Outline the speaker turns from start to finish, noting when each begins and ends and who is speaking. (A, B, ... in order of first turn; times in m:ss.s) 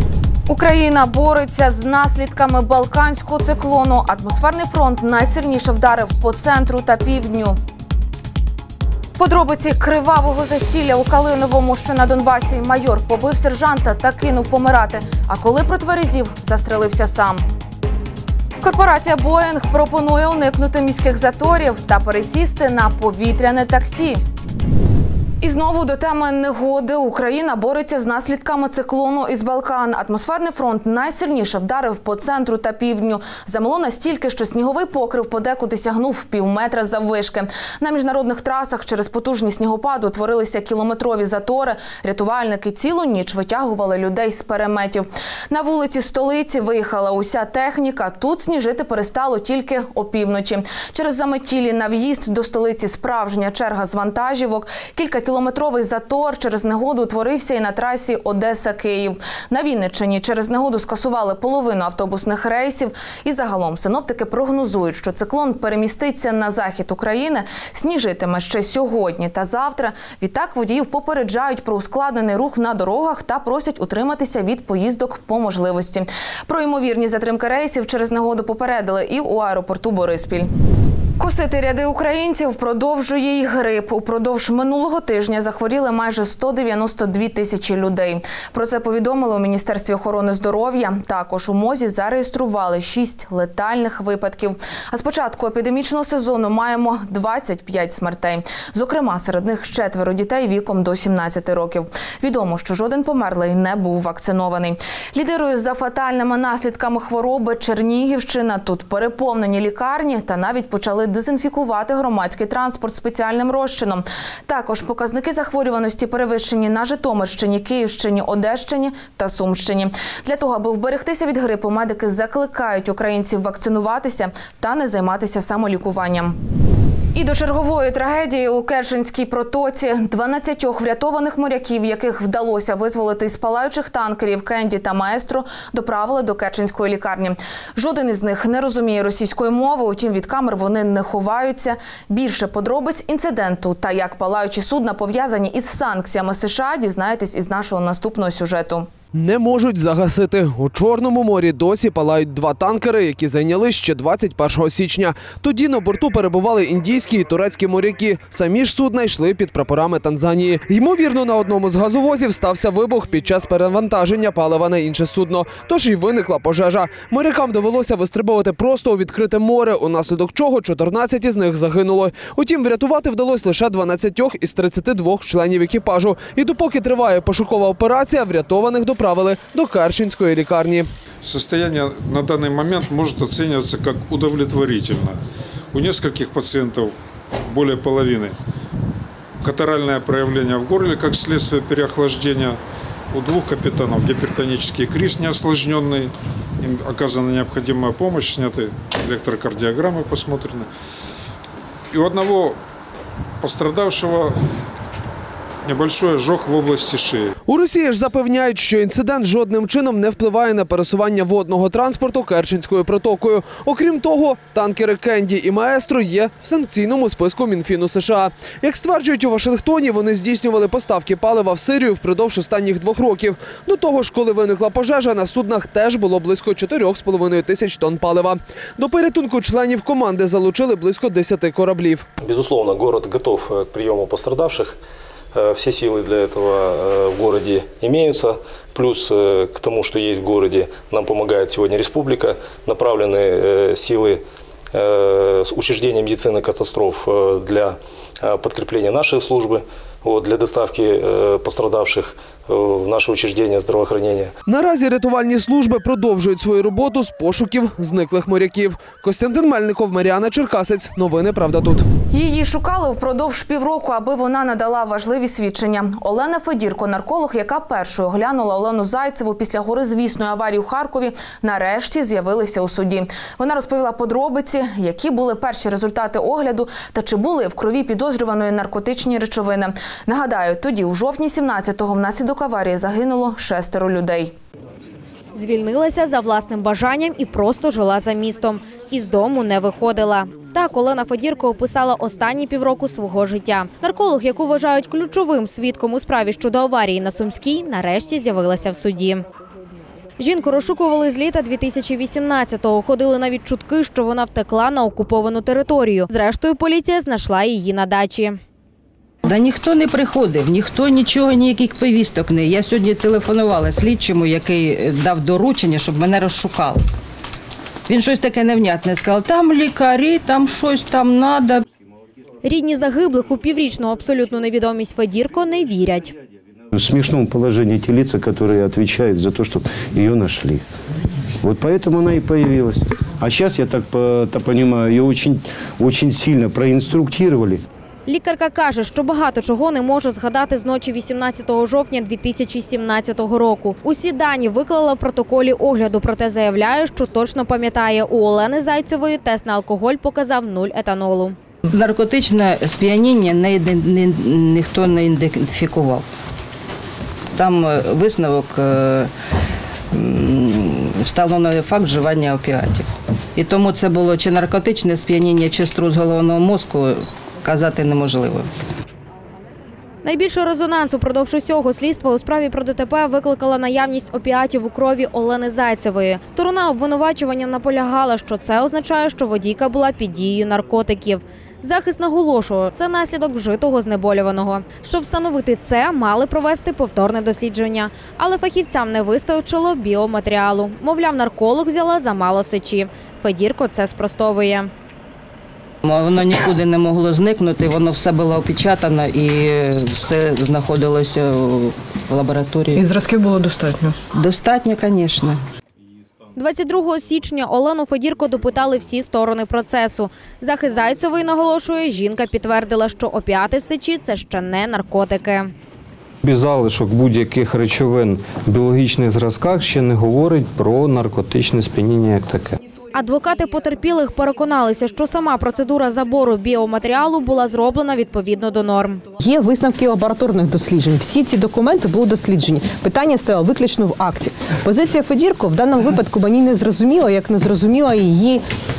0:00.5-0:07.6 A
0:09.2-0:17.4 A
0:18.6-0:24.2 A
0:25.4-1:20.5 A
1:21.2-2:06.4 A
2:07.1-2:28.9 A
2:29.1-3:00.9 B
3:01.2-3:05.2 C
3:05.7-3:06.9 C
3:07.5-3:08.3 C
3:09.4-3:12.6 C
3:13.1-3:20.7 C
3:21.9-3:22.6 C
3:23.4-3:24.4 C
3:25.6-3:27.3 C
3:27.5-3:52.1 B
3:52.2-3:54.8 D
3:55.3-4:04.2 D
4:04.7-4:14.3 D
4:14.5-4:21.8 B
4:22.1-4:44.3 A
4:45.3-4:59.2 E
5:00.2-5:08.4 E
5:09.2-5:16.8 F
5:17.9-5:21.6 F
5:22.4-5:26.1 E
5:26.7-5:30.6 G
5:31.4-5:37.6 G
5:38.1-5:51.4 E
5:51.7-5:56.0 F
5:57.4-5:59.1 F
5:59.9-6:08.5 F
6:10.0-6:34.7 E
6:35.8-6:42.9 F
6:44.1-6:45.4 F
6:46.4-6:55.5 E
6:56.2-7:02.6 H
7:02.9-7:09.0 E
7:09.2-7:18.4 I